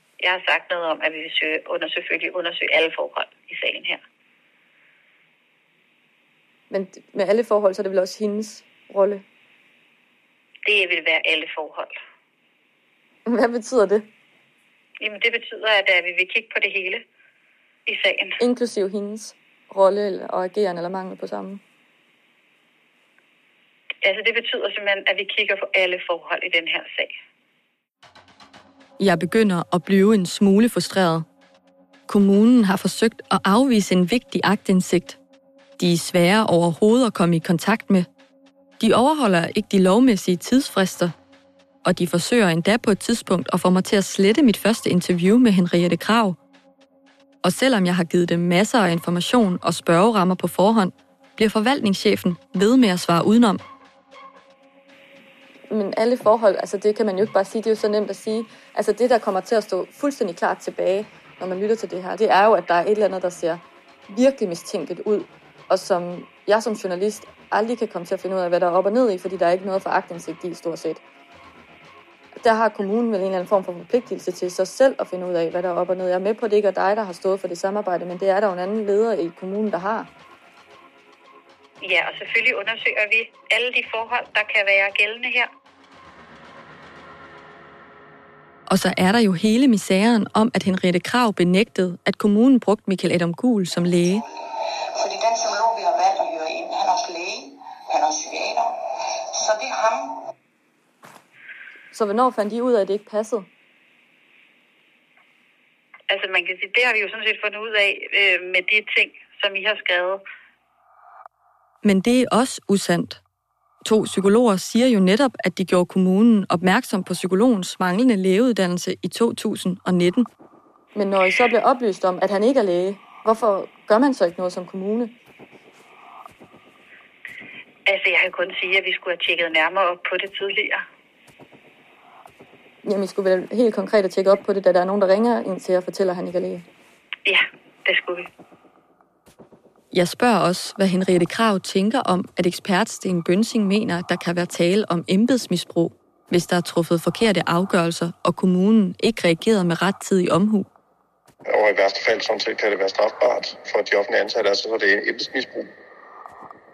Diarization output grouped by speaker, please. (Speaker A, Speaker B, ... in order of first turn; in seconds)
Speaker A: 0.2-4.0, 10.6-11.9, 15.0-17.0, 17.9-18.4, 24.0-27.1, 81.8-85.5, 106.1-110.2, 127.8-130.8, 137.2-138.3
Speaker B: 6.7-9.2, 13.2-14.1, 18.4-21.6, 55.7-71.0, 72.4-80.1, 101.9-103.5, 120.9-125.1, 132.8-136.6
Speaker C: 29.0-31.2, 32.1-35.2, 35.8-38.1, 38.8-41.1, 41.8-46.4, 47.4-53.6, 88.7-94.2, 111.8-113.2, 113.8-120.3, 139.9-150.7
Speaker D: 94.0-100.2
Speaker E: 151.5-155.7